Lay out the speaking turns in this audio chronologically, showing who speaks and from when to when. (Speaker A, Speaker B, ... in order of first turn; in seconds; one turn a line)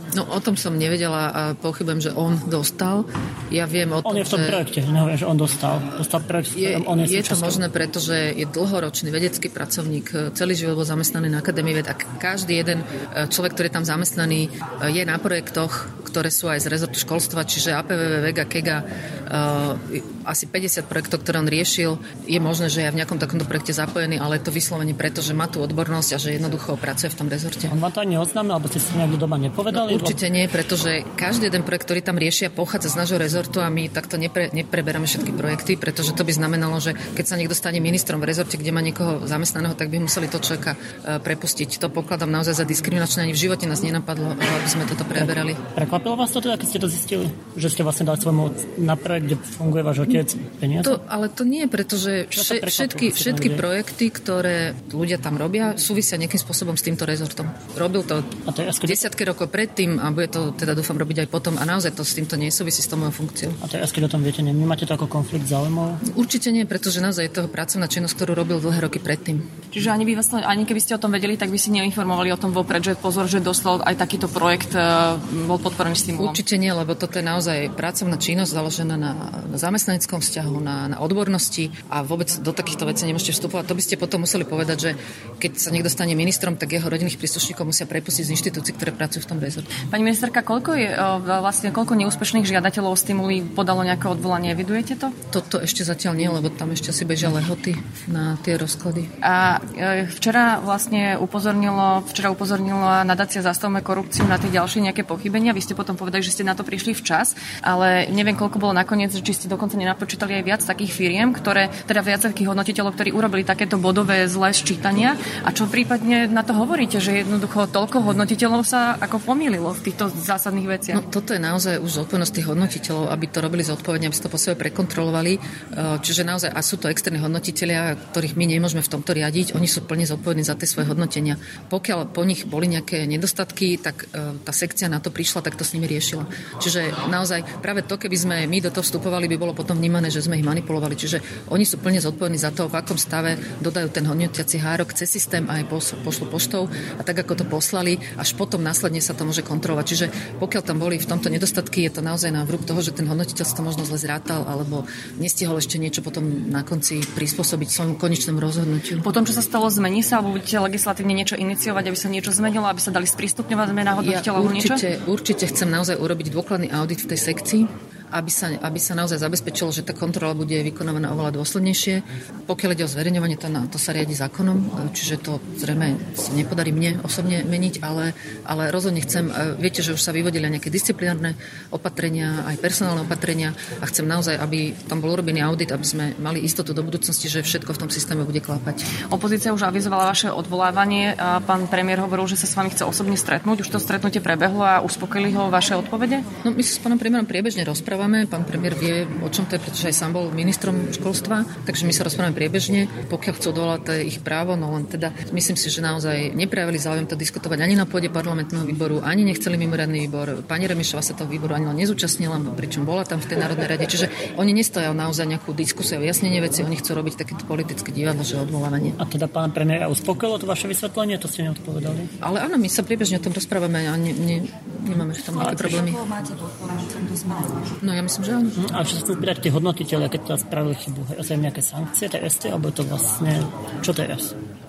Speaker A: 0.1-4.6
Speaker B: 4.0-7.7
Speaker A: 6.5-27.7
Speaker B: 27.7-30.2
Speaker A: 29.7-45.6
Speaker B: 45.2-51.0
Speaker A: 50.8-58.3
Speaker B: 52.3-53.6
Speaker B: 58.5-59.1
Speaker A: 58.8-63.6
Speaker B: 63.6-66.0
Speaker A: 66.1-69.5
Speaker C: 69.7-76.4
Speaker A: 76.2-89.7
Speaker C: 89.9-95.1
Speaker A: 95.3-99.1
Speaker C: 99.2-121.0
Speaker A: 120.9-159.1
Speaker C: 159.0-164.8
Speaker A: 164.0-188.9
Speaker C: 189.1-196.3
Speaker A: 196.4-219.0
Speaker B: 219.0-222.1
Speaker A: 222.2-226.0
Speaker B: 225.4-225.8
Speaker A: 227.8-228.6
Speaker B: 228.6-234.3